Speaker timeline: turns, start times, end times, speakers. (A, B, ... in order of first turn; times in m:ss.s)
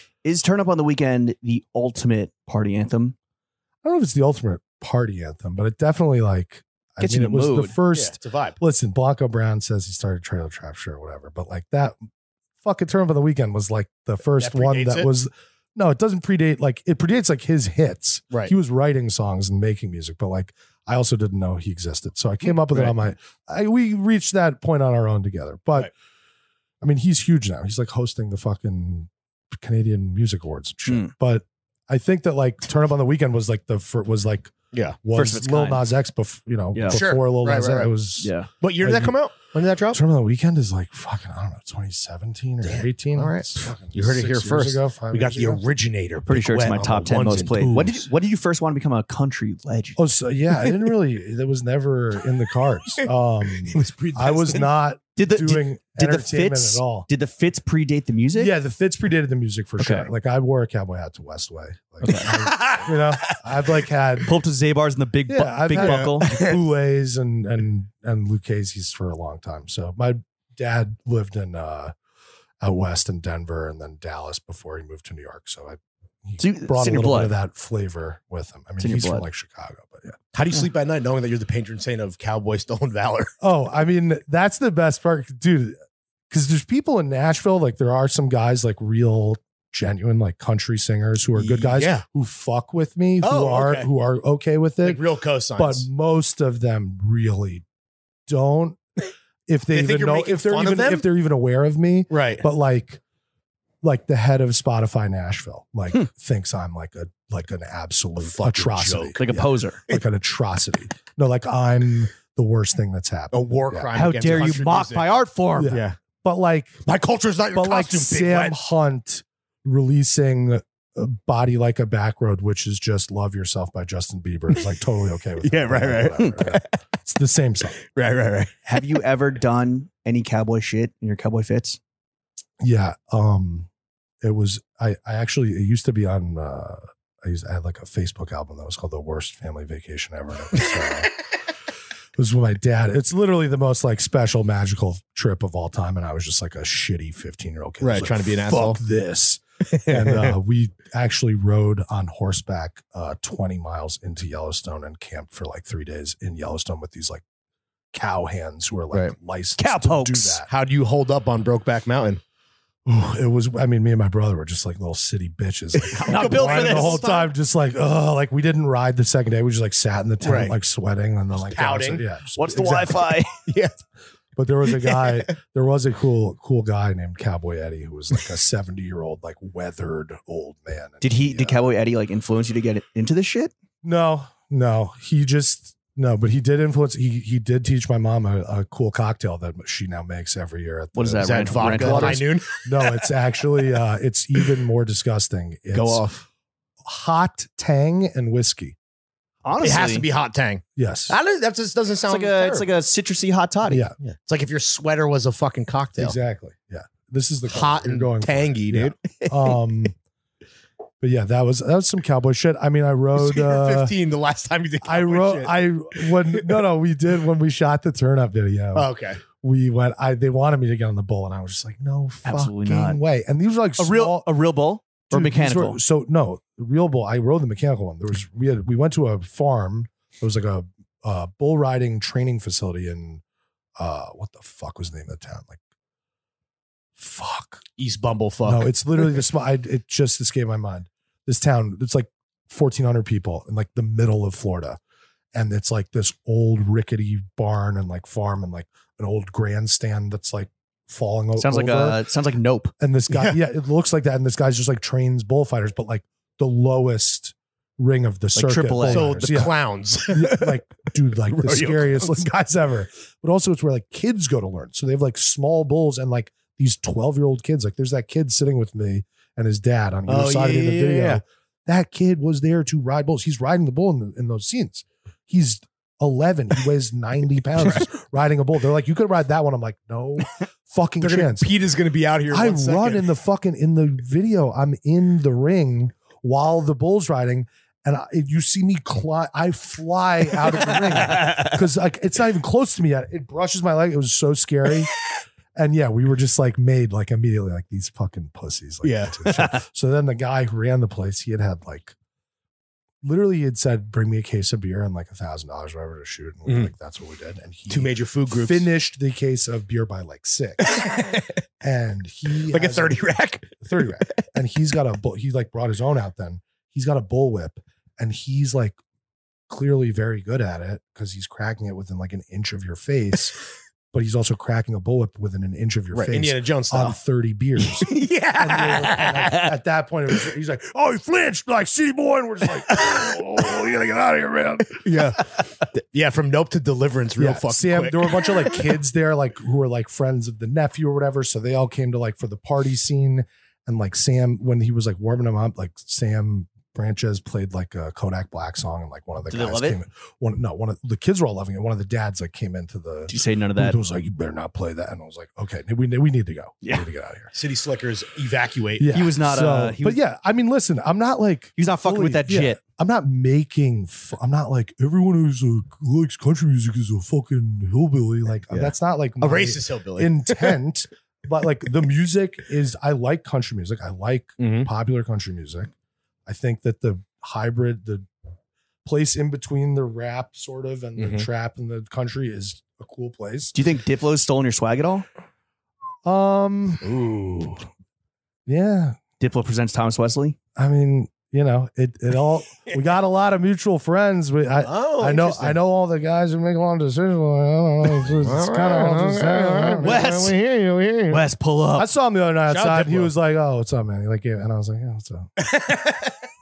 0:00.2-0:03.1 A
0:03.8-0:12.0 B
0:07.0-0:07.8 A
0:07.9-0:08.6 C
0:12.6-0:25.9 B
0:14.4-0:15.1 C
0:26.8-0:39.2 B
0:30.9-0:31.1 A
0:34.7-0:35.0 C
0:35.1-0:35.9 A
0:36.7-0:37.0 A
0:36.9-0:37.9 C
0:38.2-0:38.5 A
0:38.6-0:40.0 C
0:39.9-0:45.6 B
0:42.6-0:48.1 C
0:46.2-0:50.0 A
0:50.0-0:57.1 B
0:53.6-0:54.7 C
0:55.2-0:58.5 A
0:58.3-1:04.3 B
0:59.8-1:00.1 A
1:02.0-1:02.4 A
1:02.3-1:03.4 C
1:04.2-1:06.3 A
1:05.3-1:11.9 B
1:05.7-1:06.6 C
1:12.6-1:20.2 B
1:16.4-1:17.4 A
1:18.8-1:19.2 A
1:20.3-1:23.3 C
1:23.4-1:25.8 B
1:26.3-1:35.0 B
1:31.4-1:32.0 C
1:33.2-1:33.9 C
1:34.8-1:35.8 C
1:35.6-1:37.6 B
1:38.3-1:38.8 B
1:39.5-1:43.0 B
1:39.7-1:41.0 C
1:42.1-1:42.4 C
1:43.8-1:53.9 B
1:48.2-1:49.2 C
1:49.2-1:49.8 A
1:53.3-1:55.1 C
1:53.9-1:55.8 A
1:55.6-1:56.8 B
1:55.7-1:56.0 C
1:56.8-1:58.6 C
1:57.5-2:07.8 B
2:05.4-2:06.8 C
2:07.9-2:08.6 C
2:08.6-2:11.8 A
2:12.6-2:13.7 B
2:14.2-2:21.1 B
2:22.2-2:37.2 B
2:27.8-2:28.8 C
2:29.7-2:30.3 C
2:37.9-2:40.5 B
2:39.6-2:40.4 A
2:40.5-2:42.2 C
2:42.8-2:53.1 B
2:45.7-2:47.3 C
2:46.1-2:47.0 A
2:50.2-2:50.6 C
2:51.4-2:52.0 C
2:52.4-2:53.4 A
2:53.4-2:53.7 C
2:54.4-3:01.6 B
2:54.7-2:55.3 C
3:01.0-3:03.5 A
3:03.8-3:16.0 B
3:10.9-3:12.2 A
3:11.2-3:13.1 C
3:15.7-3:16.2 C
3:16.8-3:18.8 B
3:19.4-3:20.0 A
3:19.6-3:22.7 C
3:20.8-3:21.2 B
3:22.0-3:23.9 A
3:23.6-3:24.0 B
3:24.0-3:26.2 C
3:26.0-3:29.9 B
3:27.5-3:29.6 C
3:31.0-3:33.9 B
3:33.2-3:36.6 C
3:34.8-3:44.3 B
3:38.7-3:39.2 C
3:42.2-3:43.0 A
3:43.8-3:45.8 A
3:45.1-3:53.2 B
3:53.8-3:55.6 B
3:57.0-3:57.6 B
3:57.8-3:58.7 C
3:58.4-4:04.8 B
4:05.3-4:12.0 B
4:11.4-4:12.7 A
4:12.8-4:19.5 B
4:13.1-4:13.4 C
4:18.3-4:19.2 A
4:18.8-4:20.6 C
4:20.1-4:41.5 B
4:21.2-4:22.2 C
4:30.1-4:31.2 C
4:41.0-4:43.1 C
4:42.3-4:54.9 B
4:55.5-5:01.9 B
4:58.8-4:59.4 C
5:03.0-5:10.8 B
5:06.4-5:06.7 C
5:07.7-5:08.7 C
5:10.6-5:11.3 C
5:11.6-5:13.0 B
5:12.5-5:14.2 C
5:13.6-5:18.8 B
5:19.5-5:23.4 B
5:23.9-5:35.0 B
5:25.9-5:27.0 C
5:27.6-5:29.5 C
5:34.8-5:38.6 C
5:37.2-5:57.3 B
5:49.3-5:49.8 A
5:53.1-5:53.8 A
5:57.3-5:58.9 C
5:58.8-6:15.7 B
5:58.9-6:00.0 A
6:01.6-6:02.6 A
6:08.5-6:10.6 C
6:14.4-6:14.7 C
6:16.2-6:18.1 B
6:18.8-6:23.5 B
6:21.0-6:21.3 C
6:23.5-6:25.0 A
6:26.0-6:27.5 B
6:26.8-6:27.2 C
6:28.4-6:29.0 B
6:29.2-6:30.4 A
6:30.6-6:40.2 B
6:34.6-6:35.6 C
6:38.2-6:41.2 C
6:39.8-6:40.4 A
6:41.1-6:41.9 A
6:41.8-6:45.3 B
6:42.5-6:43.1 C
6:45.4-6:46.2 C